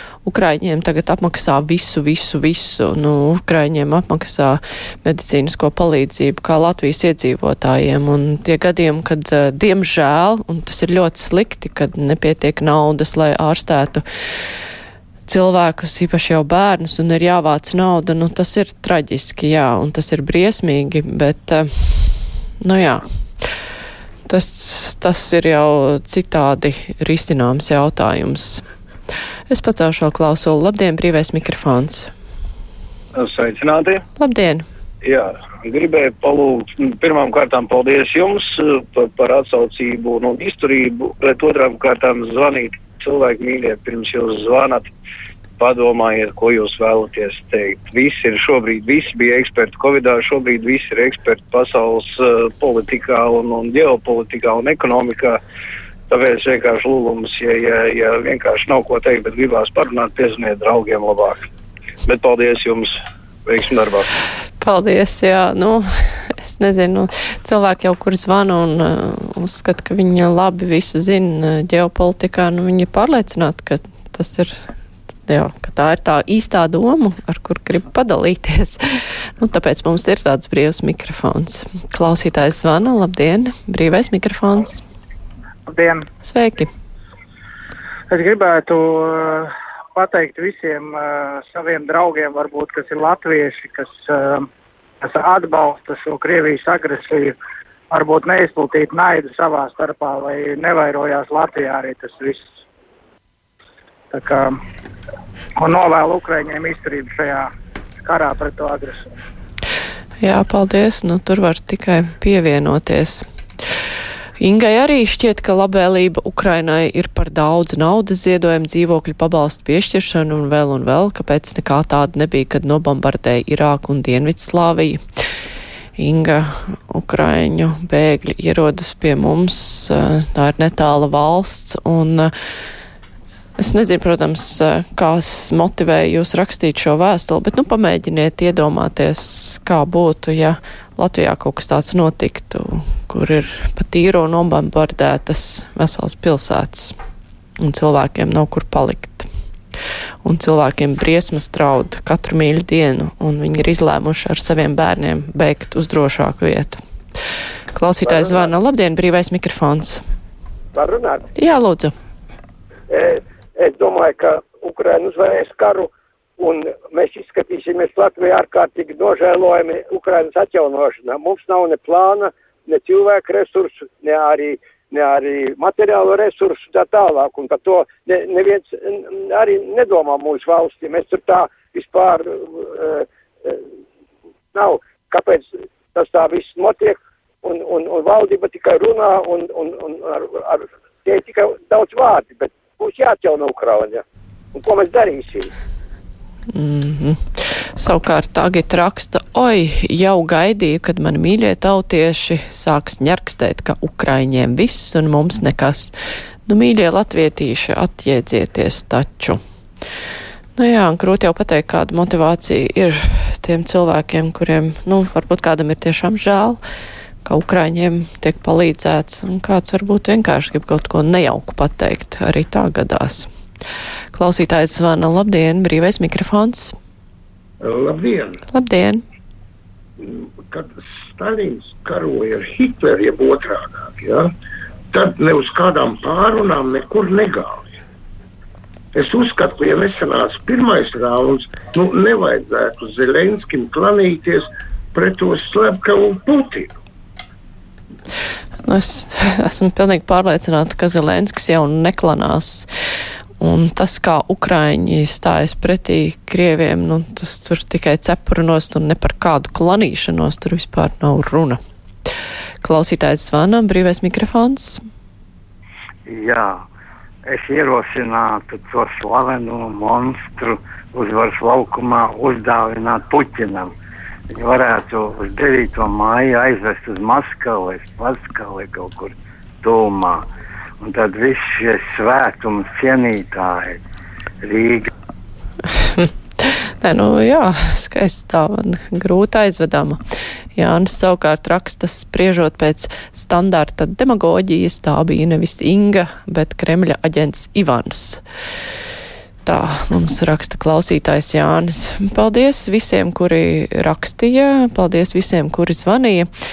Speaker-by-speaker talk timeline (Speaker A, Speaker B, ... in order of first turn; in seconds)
Speaker A: 0.2-14.0, 15.3-23.4, 24.3-28.6, 29.5-32.1, 34.2-34.6, 64.6-74.5, 75.3-78.8, 79.4-84.8, 86.2-86.7, 110.2-113.2, 114.4-125.0, 126.0-132.3, 133.6-146.9, 147.6-149.3, 150.2-156.8, 157.7-160.0, 161.4-161.9, 196.5-205.9, 206.5-209.4, 210.6-216.6, 217.2-223.3, 224.1-226.7, 228.5-229.0, 248.7-252.7, 253.4-261.6, 262.6-264.8, 285.9-290.0, 290.6-298.2, 299.5-306.3
Speaker B: 33.1-34.0, 35.0-44.9, 45.6-55.4, 56.1-61.5, 62.1-62.9, 63.5-64.1
Speaker C: 85.7-86.0, 88.1-94.5, 95.0-97.3, 97.9-102.5, 104.1-104.5, 105.6-107.5, 108.0-109.1
Speaker D: 158.0-158.5, 160.7-161.3, 162.9-183.6, 184.5-195.5
Speaker E: 227.6-228.4, 230.0-234.3, 234.9-237.7, 238.9-246.7
Speaker F: 266.1-266.6, 267.3-273.7, 274.3-280.2, 280.8-283.8, 284.4-284.9